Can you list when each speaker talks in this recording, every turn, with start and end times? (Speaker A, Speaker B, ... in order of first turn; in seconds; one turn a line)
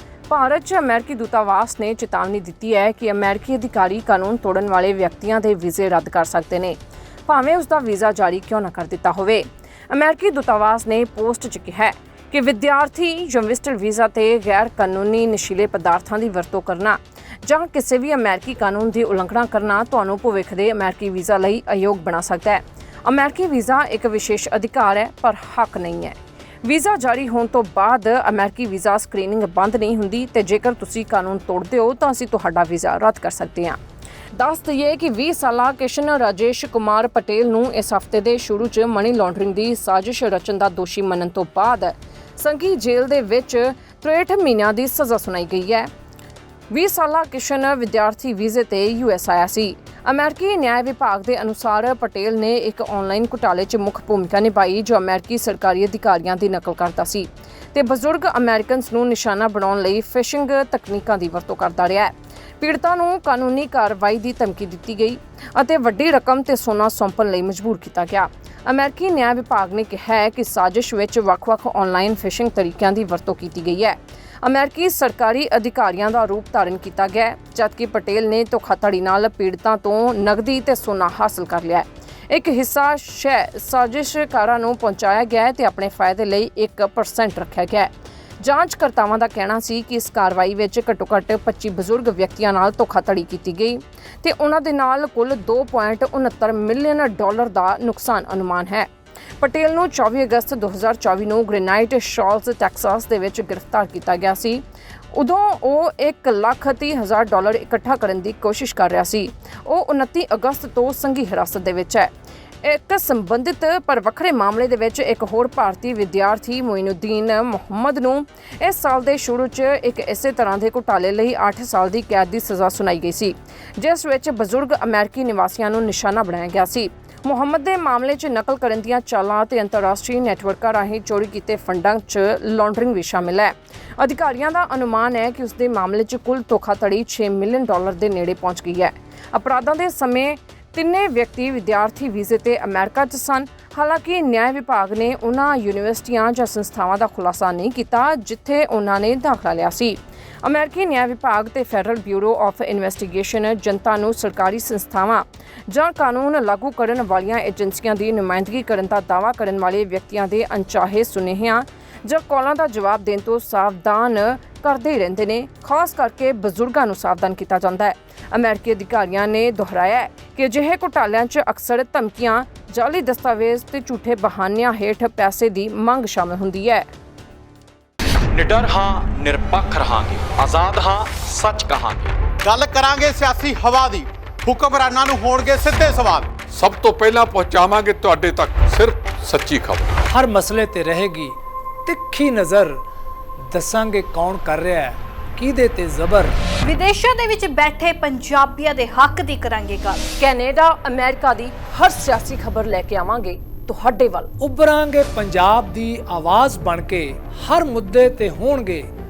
Speaker A: 0.3-33.8
Speaker A: 34.4-45.9
Speaker A: 46.7-98.9
Speaker A: 99.4-112.1
Speaker A: 112.6-176.9
Speaker B: 178.3-182.2
Speaker C: 182.4-186.3
Speaker D: 186.5-189.9
Speaker E: 190.1-192.8
Speaker E: 193.5-196.4
Speaker F: 196.6-200.0
Speaker A: 200.2-204.3
Speaker E: 204.4-208.9